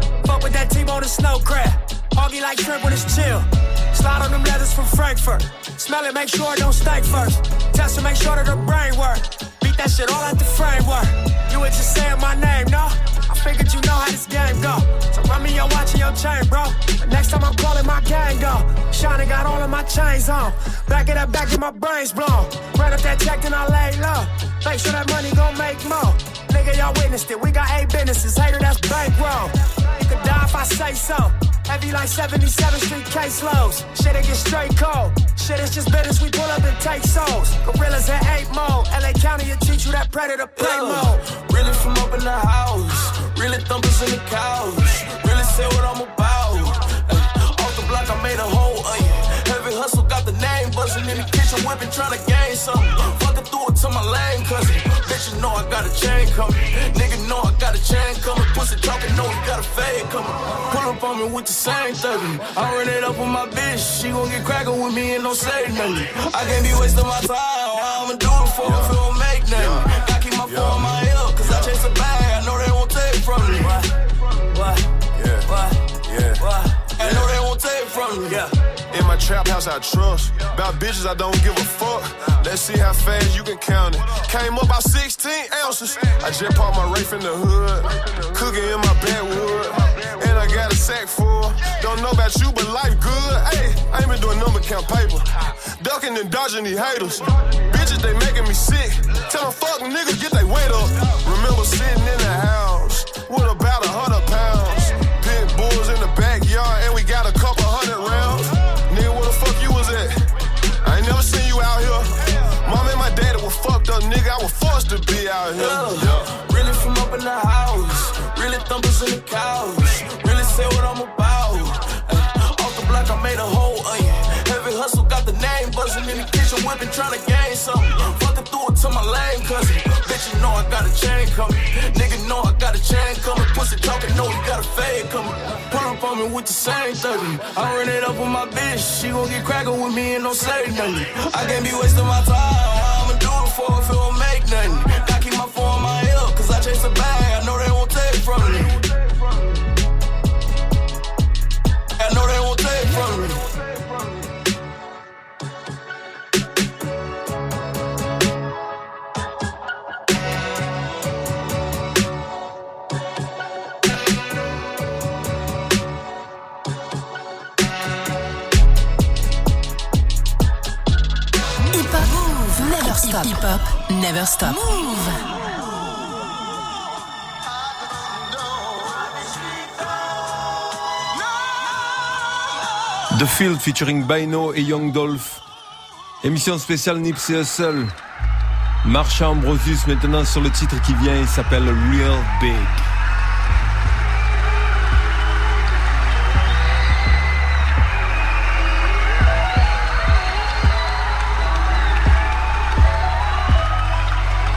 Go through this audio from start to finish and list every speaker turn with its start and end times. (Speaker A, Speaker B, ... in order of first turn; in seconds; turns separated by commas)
Speaker A: 0.2-41.2, Speaker B: 40.5-73.9, Speaker C: 68.6-71.8, Speaker A: 74.5-74.8, Speaker C: 75.1-75.5, Speaker A: 75.4-75.8, Speaker C: 76.0-76.4, Speaker A: 76.4-76.8, Speaker B: 77.0-78.4, Speaker C: 77.0-77.3, Speaker A: 78.3-78.5, Speaker C: 78.9-110.2, Speaker C: 110.8-116.3, Speaker B: 115.5-148.9, Speaker B: 152.0-153.6, Speaker D: 171.7-175.2, Speaker E: 183.1-185.4, Speaker E: 186.2-187.9, Speaker E: 188.8-192.9